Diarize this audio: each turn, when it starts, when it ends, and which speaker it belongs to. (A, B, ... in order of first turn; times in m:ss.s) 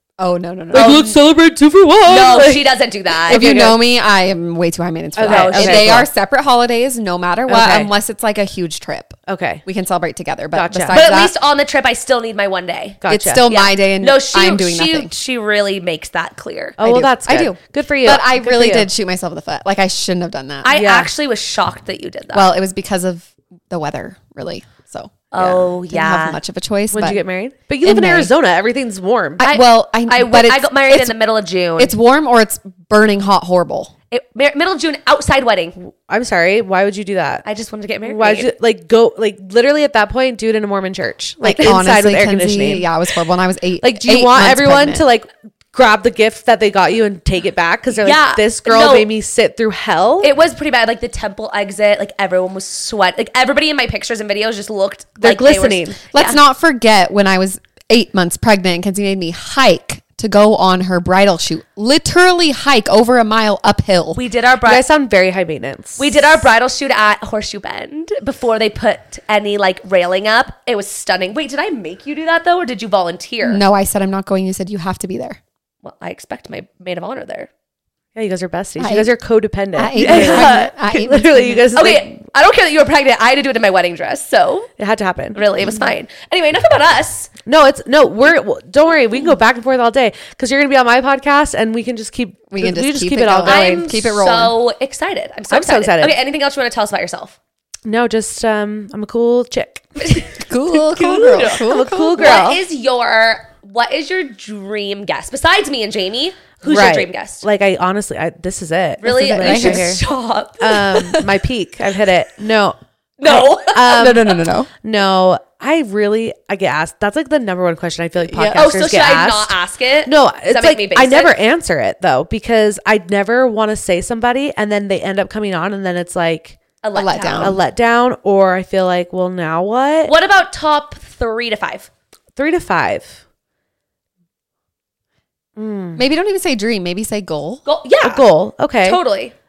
0:00.2-0:01.2 A
0:00.7-0:03.8 B
0:00.7-0:01.1 C
0:02.0-0:03.6 C
0:03.3-0:11.3 A
0:05.2-0:06.1 B
0:05.2-0:06.0 C
0:07.5-0:07.9 B
0:09.3-0:09.6 B
0:10.5-0:11.1 B
0:10.9-0:16.8 C
0:13.0-0:13.4 B
0:13.1-0:15.1 A
0:16.8-0:18.9 B
0:16.8-0:20.8 A
0:20.6-0:22.5 C
0:20.7-0:21.1 B
0:22.3-0:27.2 A
0:25.3-0:26.4 C
0:26.9-0:29.4 B
0:27.8-0:28.3 A
0:29.4-0:31.2 A
0:29.4-0:31.9 C
0:31.8-0:33.9 A
0:34.1-0:35.8 C
0:35.8-0:37.4 B
0:37.4-0:38.5 C
0:38.0-0:42.9 B
0:41.4-0:41.7 C
0:41.4-0:45.0 A
0:43.8-0:50.3 B
0:48.0-0:49.1 C
0:50.2-0:56.4 C
0:55.2-0:56.0 B
0:56.1-1:04.2 A
1:04.1-1:04.8 C
1:04.6-1:06.4 B
1:06.0-1:13.6 C
1:13.4-1:15.4 A
1:15.8-1:17.5 C
1:18.1-1:22.1 B
1:18.8-1:19.1 A
1:19.7-1:21.9 A
1:19.9-1:20.8 C
1:21.7-1:24.7 C
1:24.8-1:25.4 B
1:25.3-1:27.3 C
1:27.4-1:34.0 B
1:32.5-1:34.5 A
1:33.4-1:37.3 C
1:35.5-1:36.2 B
1:37.8-1:40.3 B
1:40.3-1:42.4 A
1:41.0-1:41.6 C
1:41.1-1:42.6 B
1:42.1-1:47.4 C
1:46.6-1:50.0 B
1:49.0-1:51.2 C
1:49.0-1:49.9 A
1:50.6-2:06.6 B
1:53.2-1:54.2 C
1:53.9-1:54.7 A
1:58.2-1:58.7 A
1:58.5-2:01.4 C
2:06.8-2:07.6 C
2:06.9-2:07.6 A
2:07.4-2:10.1 B
2:10.0-2:11.9 C
2:12.4-2:13.2 B
2:15.6-2:16.0 B
2:16.0-2:17.6 A
2:17.6-2:18.3 C
2:18.0-2:19.0 B
2:18.8-2:19.3 C